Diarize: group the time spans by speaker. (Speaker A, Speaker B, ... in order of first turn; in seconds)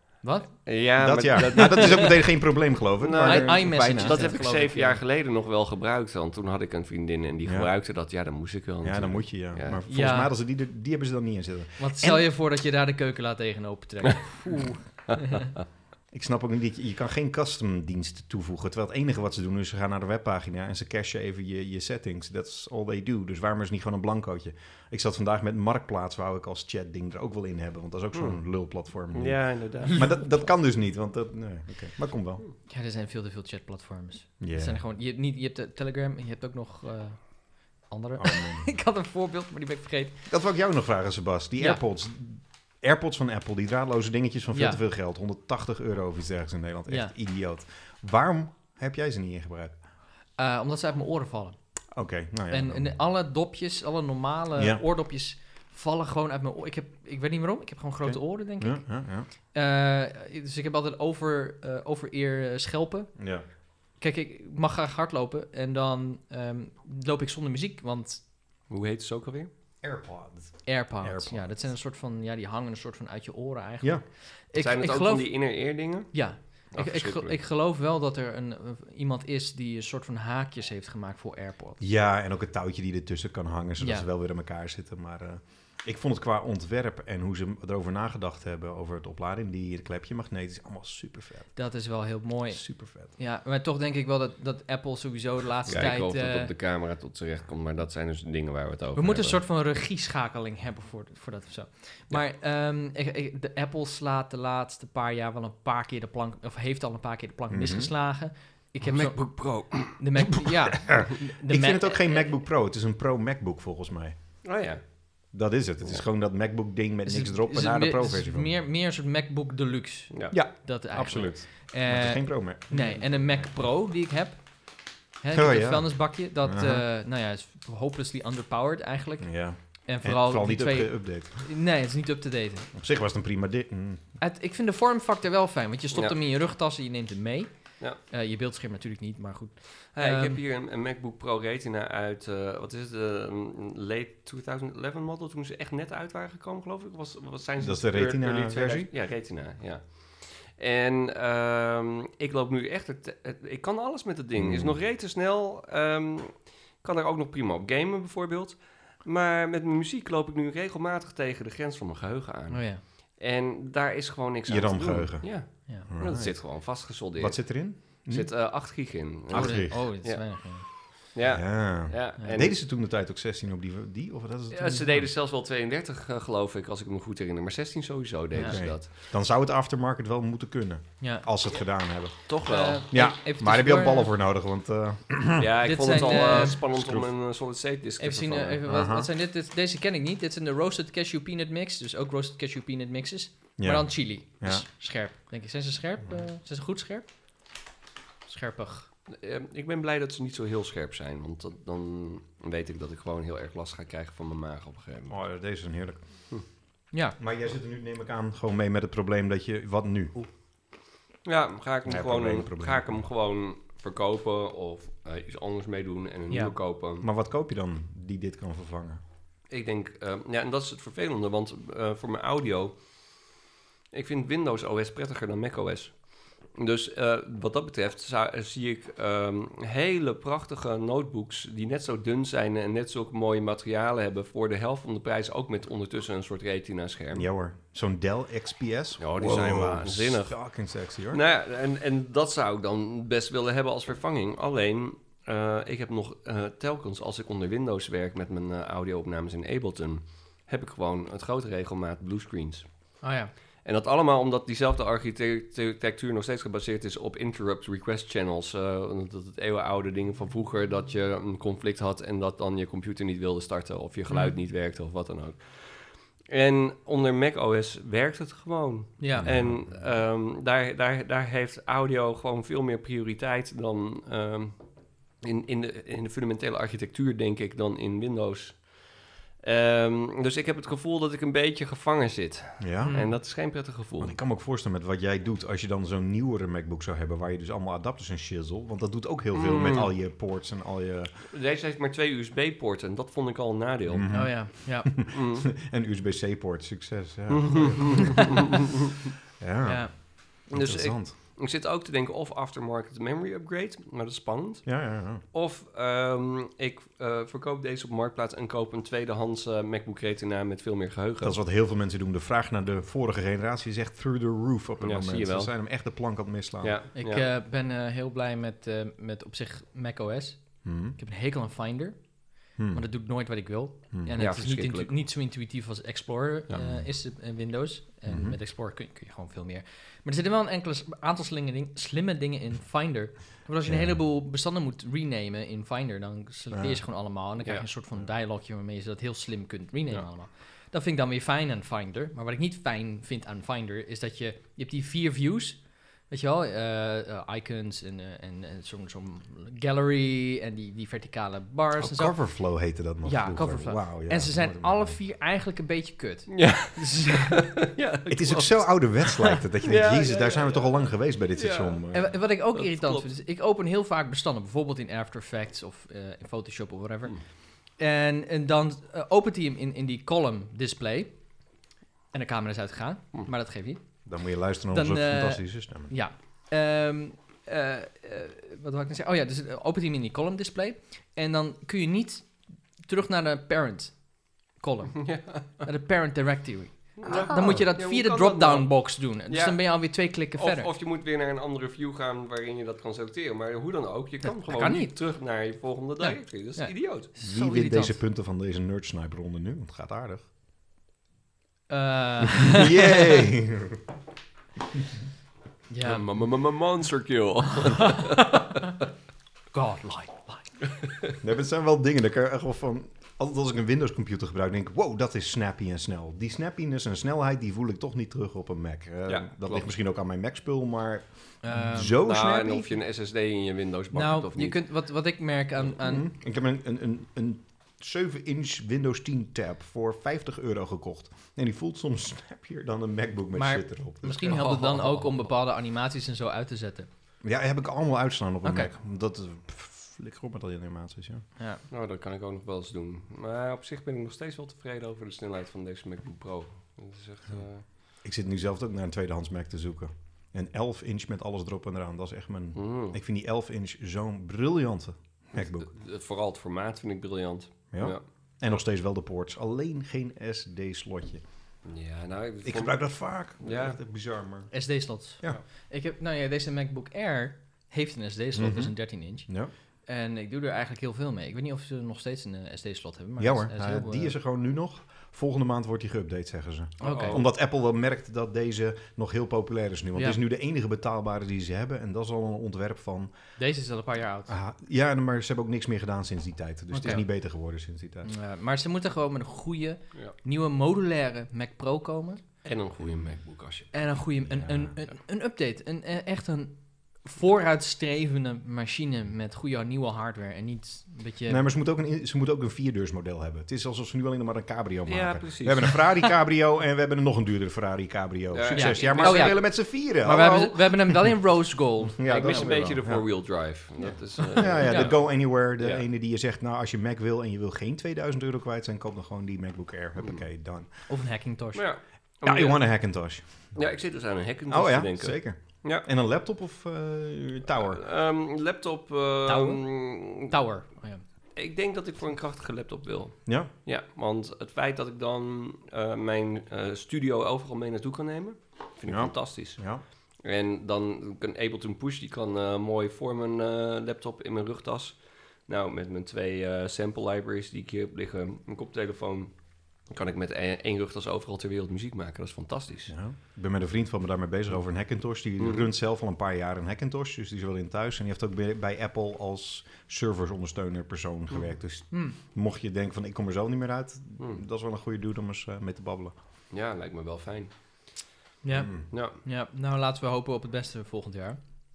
Speaker A: 0.2-0.7, 1.7-2.0, 3.2-5.0, 9.9-10.3, 11.8-15.5, 29.8-30.3, 32.6-40.2, 44.5-44.8, 46.9-47.1, 50.4-51.5, 52.5-68.2, 70.7-81.8, 83.8-84.0, 91.5-96.5, 99.0-112.3, 117.0-132.7, 134.2-140.4, 162.5-162.8, 165.6-165.9, 169.3-170.7, 178.3-178.6, 181.0-181.6, 182.4-184.1, 185.6-186.6, 188.0-197.1, 198.2-198.9, 206.9-207.2, 253.0-253.3, 264.1-264.3, 269.0-269.3, 282.8-283.2, 294.1-294.9, 299.6-299.9, 316.9-352.2, 353.0-357.6, 358.3-359.2, 361.9-371.6, 372.1-373.9, 374.7-390.7, 394.2-395.0, 396.0-398.0, 401.7-403.3, 405.7-406.1, 407.8-408.6, 409.5-410.6, 421.4-422.0, 423.9-426.1, 433.3-436.9, 438.4-438.7, 441.4-441.6, 464.5-469.3, 469.9-474.1, 476.8-477.2, 483.4-484.3, 486.7-487.0, 488.0-492.2, 493.7-501.4, 508.5-512.7, 514.6-514.9, 520.9-521.6, 529.3-531.0, 568.4-571.4
Speaker B: 0.6-2.2, 3.0-9.8, 28.1-30.2, 68.7-69.5, 74.5-77.3, 95.7-99.4, 108.8-110.1, 114.4-115.3, 120.1-120.3, 139.9-172.6, 174.5-178.9, 182.3-182.8, 185.4-188.6, 199.1-205.2, 211.2-217.1, 219.5-222.8, 223.9-237.2, 239.0-240.6, 241.1-252.7, 253.6-274.6, 275.2-284.1, 289.3-289.9, 291.3-294.4, 295.1-295.5, 297.3-299.0, 300.5-311.4, 314.8-315.5, 316.6-317.3, 324.2-324.9, 356.3-358.8, 359.6-362.0, 362.5-363.1, 385.0-385.7, 387.0-397.1, 405.8-408.4, 419.1-419.7, 422.0-424.6, 434.2-435.3, 441.7-447.6, 452.6-453.0, 455.3-458.0, 461.6-463.8, 476.8-477.2, 492.4-493.7, 504.9-506.1, 508.3-509.4, 512.1-515.8, 521.5-522.7, 523.5-525.9, 527.6-530.3, 531.4-552.9, 555.4-555.7, 566.5-568.0, 568.9-569.2
Speaker C: 1.0-4.3, 7.4-7.7, 8.8-12.3, 16.1-32.5, 34.4-34.8, 38.2-38.7, 40.3-49.8, 51.9-53.0, 54.6-54.8, 58.0-59.3, 63.1-63.4, 69.8-71.7, 81.8-91.7, 92.5-93.1, 107.5-107.9, 110.9-114.4, 115.3-118.5, 120.3-123.5, 125.3-126.8, 129.2-131.5, 132.7-134.2, 147.6-148.9, 154.4-154.8, 164.5-168.5, 169.3-169.9, 171.3-175.1, 178.4-182.3, 182.9-187.1, 188.7-189.1, 193.6-194.7, 205.1-206.4, 207.2-210.2, 211.8-213.1, 217.0-219.0, 237.1-241.2, 269.2-269.7, 282.6-283.0, 284.0-291.1, 293.9-298.6, 299.4-301.1, 304.6-305.2, 311.2-316.8, 320.6-320.9, 322.6-322.9, 323.9-324.2, 326.5-326.9, 328.1-328.4, 333.6-334.0, 336.5-336.8, 351.8-355.0, 358.1-362.2, 374.0-375.9, 387.4-387.6, 397.2-400.2, 402.4-403.8, 411.2-422.8, 425.8-434.4, 437.2-441.2, 448.0-455.7, 457.7-461.2, 462.4-464.6, 468.3-469.5, 473.2-483.1, 484.3-488.1, 494.3-494.7, 501.3-511.2, 511.8-513.1, 513.8-520.7, 522.2-523.5, 524.5-527.8, 533.2-533.5, 538.9-539.8, 552.9-566.1, 568.5-568.8